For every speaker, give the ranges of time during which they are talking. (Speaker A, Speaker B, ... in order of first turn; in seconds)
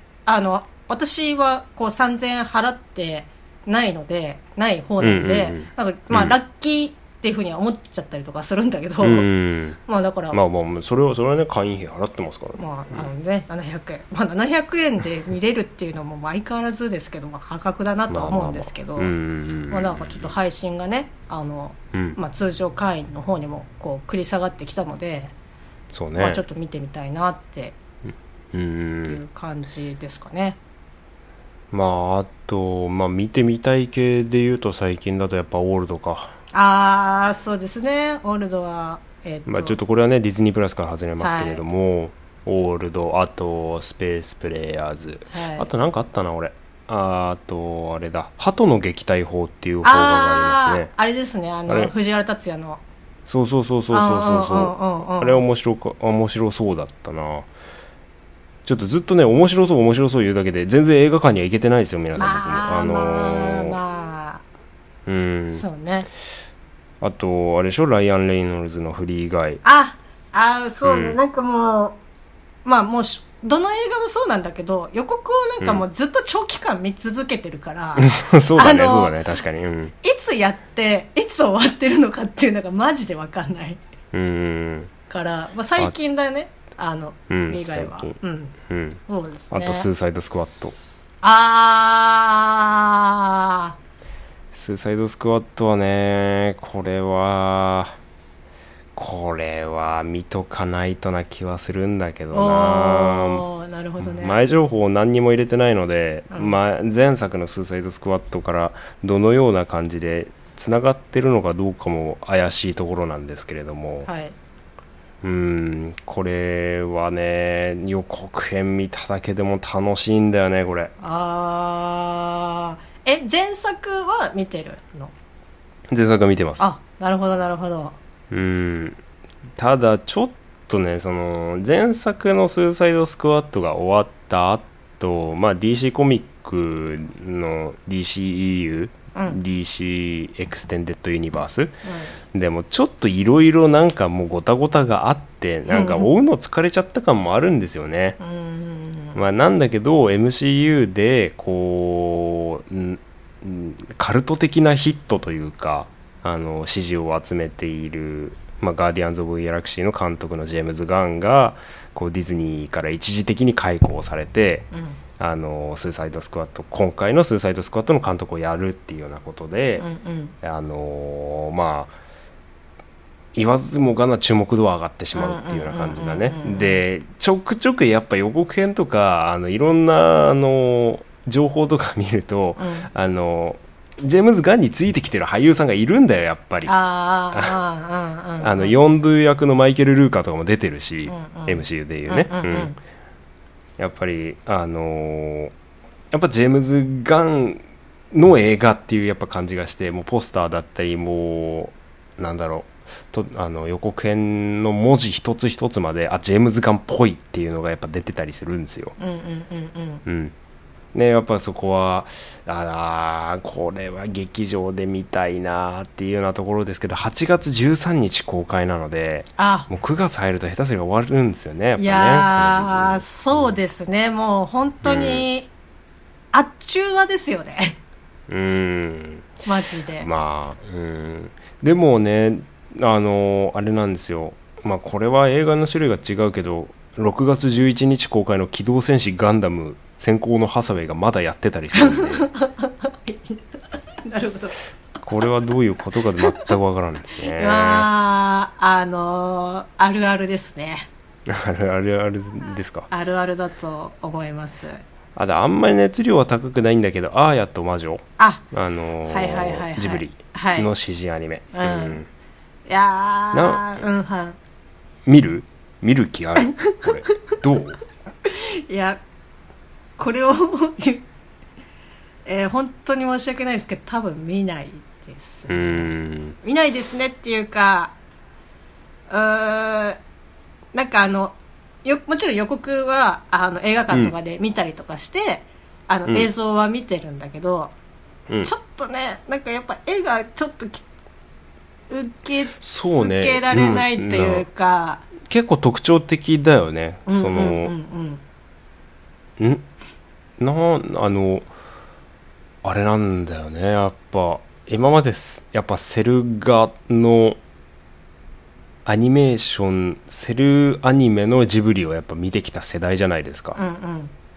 Speaker A: 0.3-9.3, 9.9-10.4, 12.6-19.1, 19.7-25.3, 26.2-27.8, 29.1-30.6, 36.5-39.8, 41.2-41.6, 45.3-45.7, 49.8-52.8, 53.9-55.4, 62.2-64.4, 65.5-66.1, 69.6-72.0, 72.7-79.2, 80.0-83.8, 85.1-88.5, 89.1-89.9, 91.2-93.8, 102.3-104.4, 106.3-106.6, 114.1-114.3, 121.0-125.1, 126.6-128.0, 139.2-139.4, 141.8-142.2, 145.7-146.1, 148.2-149.2, 164.7-165.0, 169.8-170.3, 175.2-176.8, 182.6-182.9, 186.7-188.8, 191.1-192.8, 209.0-210.0, 219.4-219.7, 221.8-225.5, 226.3-227.8, 229.5-230.1, 241.8-243.4, 244.0-244.6, 246.2-246.5, 247.3-250.9, 252.9-254.8, 258.2-258.4, 259.1-260.7, 261.5-262.0, 262.7-264.4, 266.4-267.4, 268.2-269.0, 270.0-271.1, 272.3-275.9, 276.4-277.9, 279.1-280.0, 280.7-287.7, 288.4-290.9, 291.9-295.1, 297.1-298.2, 313.6-314.1
Speaker B: 5.0-6.4, 9.0-9.8, 10.3-13.1, 18.1-20.3, 21.9-22.2, 25.9-26.4, 28.5-29.2, 31.7-36.4, 39.5-50.9, 51.7-51.9, 53.3-57.5, 58.6-63.8, 65.1-65.7, 67.0-69.6, 70.8-71.2, 78.0-79.9, 84.1-84.9, 87.3-88.2, 88.7-90.8, 94.5-98.0, 99.0-103.5, 104.0-114.1, 115.2-120.9, 125.9-126.7, 128.3-129.0, 129.6-141.8, 142.3-148.2, 149.2-164.7, 165.2-169.9, 170.4-171.9, 173.3-186.7, 187.3-187.6, 188.4-192.7, 193.8-195.5, 196.1-208.9, 210.1-210.3, 210.9-223.6, 224.8-225.3, 228.3-229.3, 230.0-242.3, 245.0-247.9, 251.3-252.9, 255.2-262.1, 263.3-263.8, 265.1-267.8, 275.5-276.4, 292.6-294.5, 295.2-297.7, 299.4-299.6, 300.4-301.5, 302.6-307.4, 308.9-313.6